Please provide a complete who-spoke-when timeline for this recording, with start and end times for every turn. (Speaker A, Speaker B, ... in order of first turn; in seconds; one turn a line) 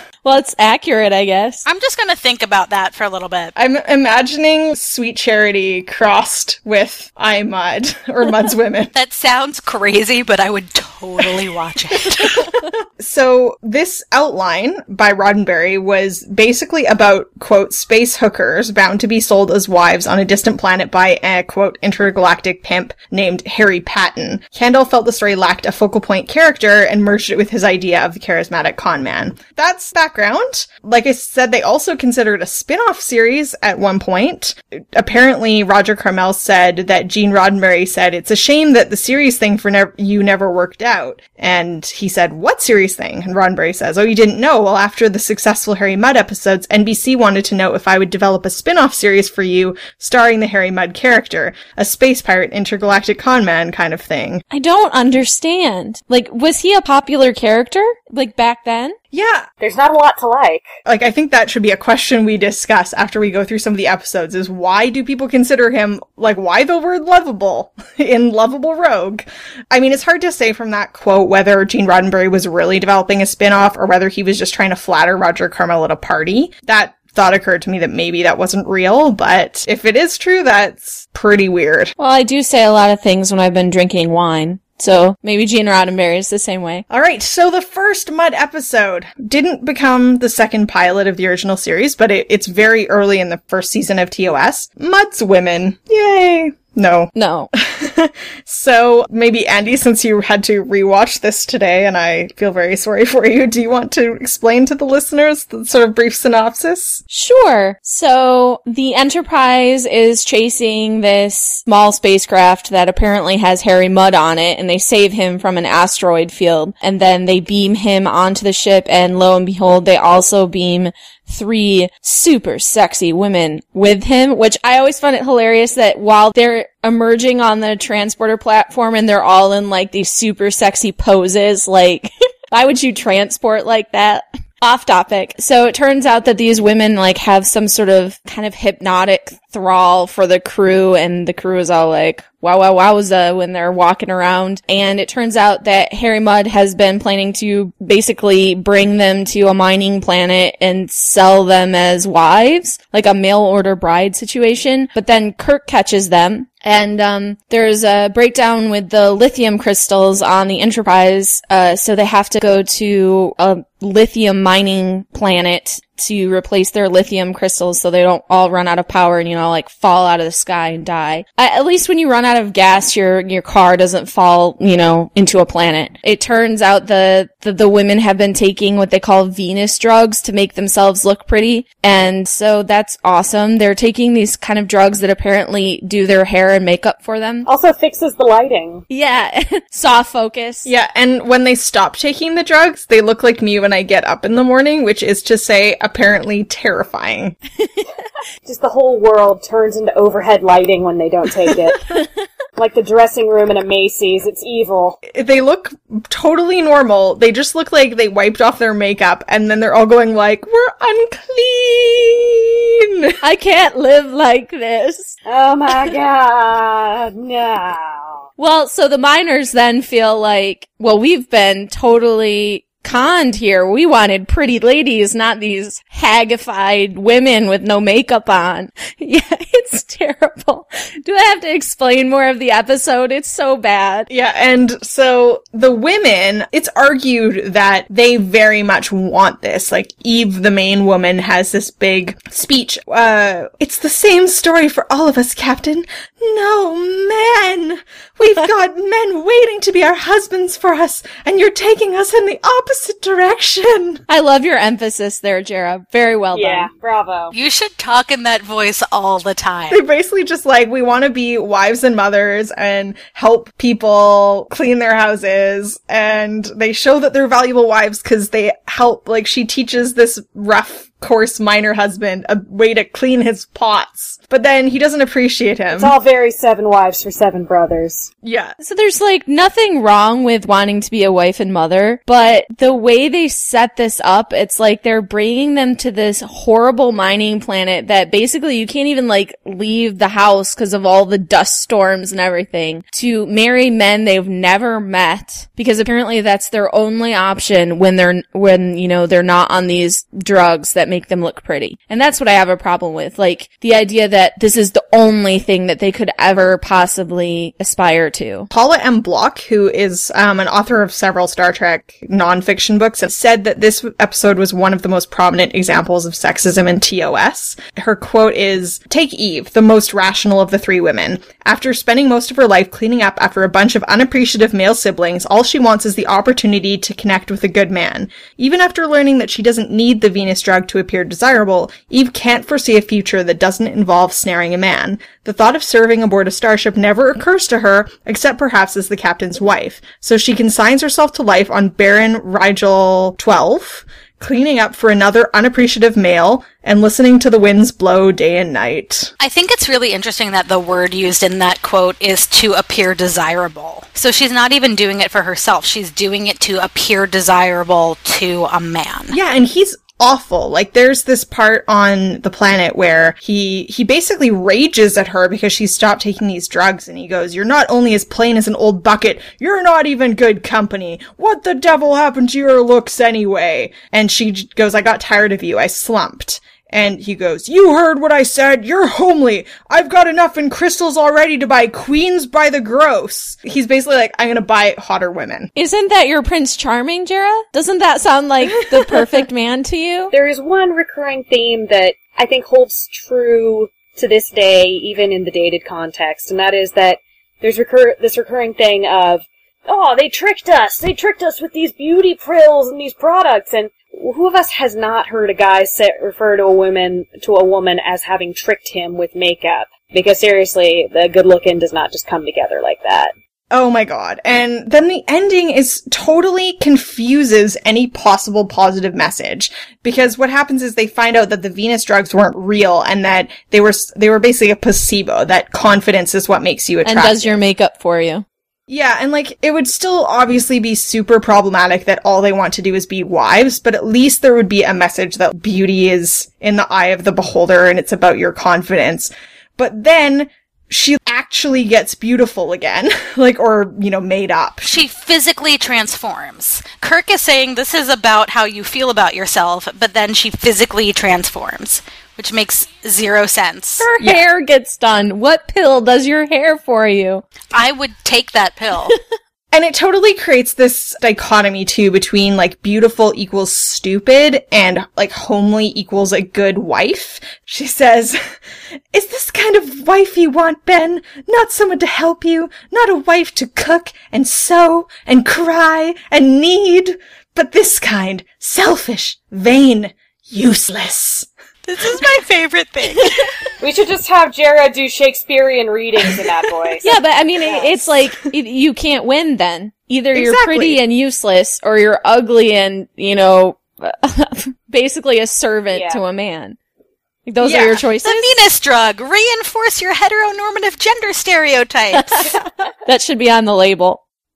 Speaker A: 0.2-1.6
Speaker B: 1.6-3.5
Speaker C: 3.6-8.9
Speaker B: 8.9-12.5
Speaker C: 12.2-54.4
Speaker A: 54.5-59.0
Speaker C: 59.1-59.5
Speaker D: 59.6-60.7
Speaker C: 60.9-81.9
Speaker A: 82.0-86.8
Speaker C: 86.9-107.0
Speaker A: 97.2-97.5
Speaker A: 107.1-187.5
Speaker D: 187.4-188.8
Speaker A: 188.9-190.7
Speaker C: 190.7-197.4
Speaker D: 198.4-202.0
Speaker D: 202.6-205.0
Speaker C: 205.1-213.1
Speaker A: 213.2-215.2
Speaker D: 215.3-218.2
Speaker A: 218.4-234.1
Speaker C: 234.1-254.0
Speaker A: 254.1-256.7
Speaker D: 256.3-257.3
Speaker B: 257.3-259.8
Speaker C: 259.7-275.9
Speaker D: 275.7-278.1
Speaker C: 278.2-278.6
Speaker A: 278.6-308.5
Speaker C: 308.5-349.1
Speaker B: 349.2-359.2
Speaker C: 359.1-385.5
Speaker A: 385.6-390.1
Speaker D: 390.1-413.1
Speaker C: 413.5-427.3
Speaker A: 426.8-428.2
Speaker C: 428.7-444.8
Speaker B: 444.6-453.9
Speaker A: 453.8-457.2
Speaker B: 457.5-458.9
Speaker C: 459.5-468.3
Speaker C: 468.9-481.3
Speaker B: 481.7-483.3
Speaker D: 483.6-486.9
Speaker A: 486.8-496.6
Speaker D: 487.4-487.9
Speaker C: 490.1-490.8
Speaker D: 495.7-496.0
Speaker A: 497.3-498.4
Speaker C: 497.4-497.8
Speaker B: 498.0-502.4
Speaker A: 501.9-504.0